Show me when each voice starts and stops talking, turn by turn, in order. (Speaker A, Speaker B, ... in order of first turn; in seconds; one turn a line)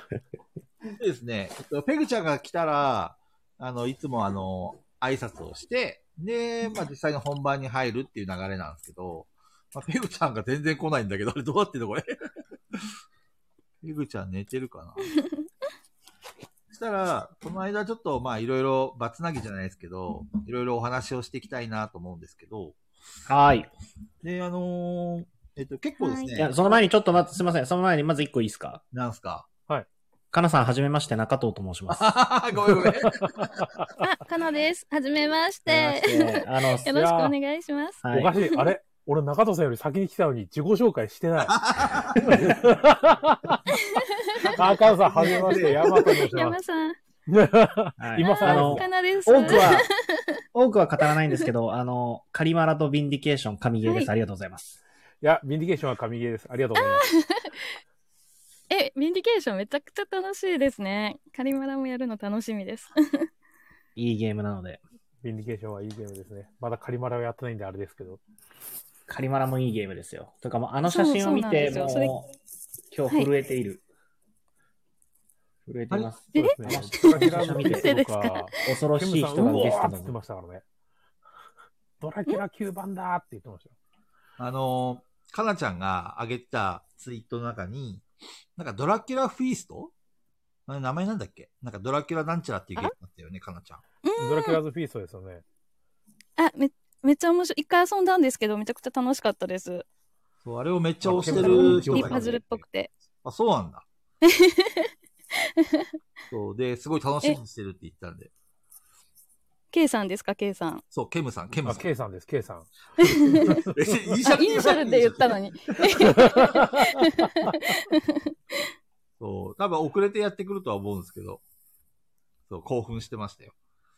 Speaker A: 1.0-12.2
Speaker A: 13.8-15.1
Speaker A: 16.7-22.8
Speaker B: 23.3-23.7
Speaker A: 24.2-26.5
Speaker C: 26.0-26.3
Speaker B: 26.3-28.8
Speaker A: 28.9-29.5
Speaker B: 30.3-32.1
Speaker A: 31.9-33.7
Speaker C: 34.0-38.6
Speaker B: 35.6-36.9
Speaker D: 36.9-37.3
Speaker B: 38.0-38.3
Speaker D: 38.0-43.6
Speaker A: 41.5-42.5
Speaker C: 43.7-44.5
Speaker A: 44.5-46.2
Speaker D: 44.5-46.6
Speaker C: 45.2-47.0
Speaker D: 47.3-48.9
Speaker B: 48.0-49.9
Speaker C: 48.2-50.4
Speaker B: 50.5-54.8
Speaker C: 53.8-54.1
Speaker D: 55.2-57.0
Speaker C: 56.8-57.7
Speaker C: 58.7-63.3
Speaker B: 64.0-64.8
Speaker D: 65.2-68.2
Speaker B: 69.1-72.3
Speaker C: 70.8-72.1
Speaker B: 72.9-73.8
Speaker B: 75.7-78.0
Speaker D: 76.3-80.6
Speaker C: 76.4-78.6
Speaker B: 78.6-80.1
Speaker D: 82.0-83.7
Speaker A: 84.4-88.0
Speaker A: 88.6-89.9
Speaker A: 90.7-93.8
Speaker C: 94.0-94.6
Speaker D: 94.2-95.4
Speaker C: 96.4-99.8
Speaker A: 100.4-102.6
Speaker D: 101.0-102.4
Speaker C: 101.9-102.9
Speaker A: 103.2-103.8
Speaker C: 104.2-105.9
Speaker A: 106.3-108.3
Speaker C: 109.7-110.8
Speaker A: 110.9-111.9
Speaker D: 111.6-113.8
Speaker C: 113.0-113.6
Speaker A: 113.4-116.6
Speaker C: 114.3-118.3
Speaker D: 116.2-116.6
Speaker A: 119.2-121.4
Speaker A: 122.5-123.5